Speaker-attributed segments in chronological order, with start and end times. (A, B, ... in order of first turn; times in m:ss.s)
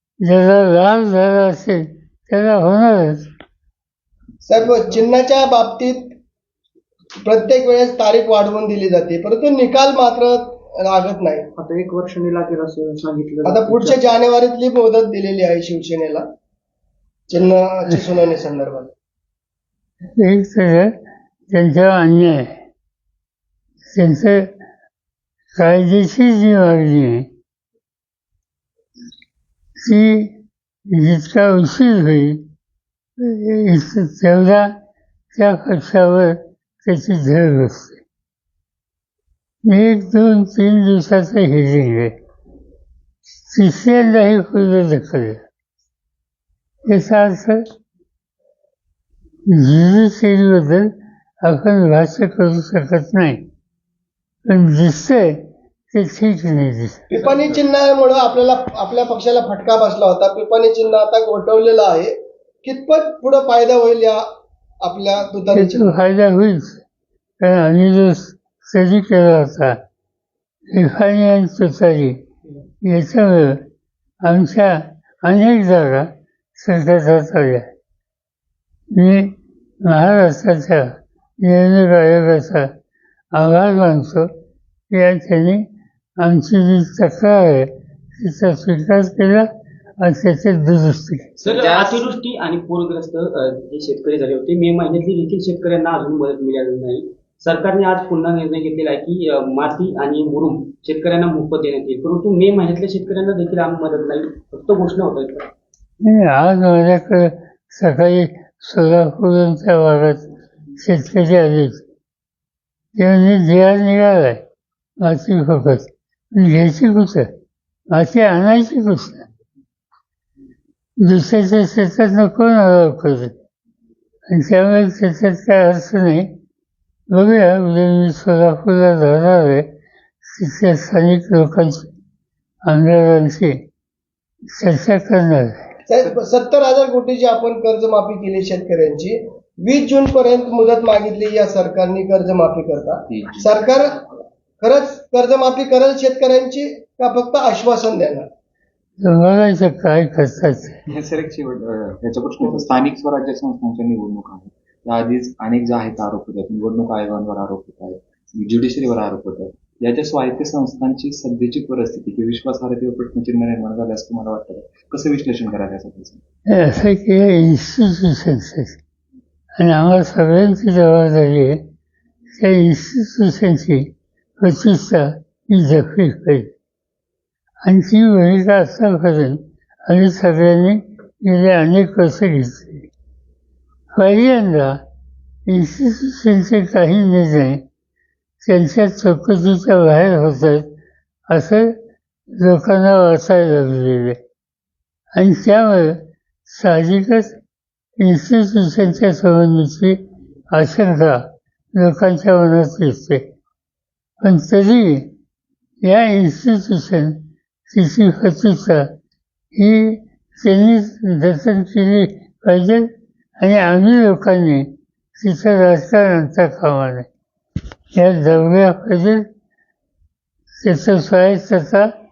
0:00.2-0:03.3 A
0:04.4-0:06.0 B
0:07.2-0:11.5 B
0:11.6-0:14.2 C
0:13.4-0:16.2 B
0:17.3-0:18.9 B
0:20.2-0:20.9 A
0:21.5-0:22.6 A
0:23.9-0:24.5 A
0:25.5-0:27.3 A
0:29.8-0:30.4 A
0:30.9-0:32.5 A
0:33.2-0:34.8 A
0:35.3-0:38.0 A
0:39.6-0:42.1 A
0:43.5-0:45.4 A
0:46.8-0:47.6 A
0:49.5-0:50.9 A
0:51.4-0:53.4 A
0:54.5-0:55.4 A
0:55.9-0:57.1 A
0:57.1-1:04.2 B
1:04.8-1:05.9 B
1:05.5-1:06.8 A
1:07.4-1:09.8 A
1:10.7-1:12.2 A
1:12.8-1:13.6 A
1:14.2-1:17.7 A
1:18.9-1:22.7 A
1:23.3-1:24.3 A
1:24.9-1:25.6 A
1:26.2-1:29.5 A
1:30.0-1:31.3 A
1:31.4-1:45.5 D
1:46.0-1:51.8 A
1:53.0-1:54.4 A
1:55.0-1:57.3 A
1:57.9-1:59.2 A
2:01.0-2:03.3 A
2:04.3-2:06.4 A
2:07.1-2:09.7 A
2:10.2-2:11.9 A
2:12.6-2:13.6 A
2:14.5-2:15.7 A
2:15.9-2:24.0 B
2:23.1-2:23.6 E
2:24.6-2:28.2 B
2:29.0-2:30.8 A
2:30.9-2:46.2 E
2:46.5-2:48.8 A
2:49.6-2:51.6 A
2:52.3-2:56.5 A
2:57.6-3:02.9 A
3:03.9-3:04.8 A
3:05.4-3:07.6 A
3:08.4-3:10.7 A
3:11.3-3:11.8 A
3:12.3-3:14.2 A
3:15.1-3:17.4 A
3:18.0-3:23.3 A
3:24.2-3:25.1 A
3:25.8-3:28.9 A
3:29.5-3:37.1 A
3:37.9-3:39.3 A
3:40.6-3:41.9 A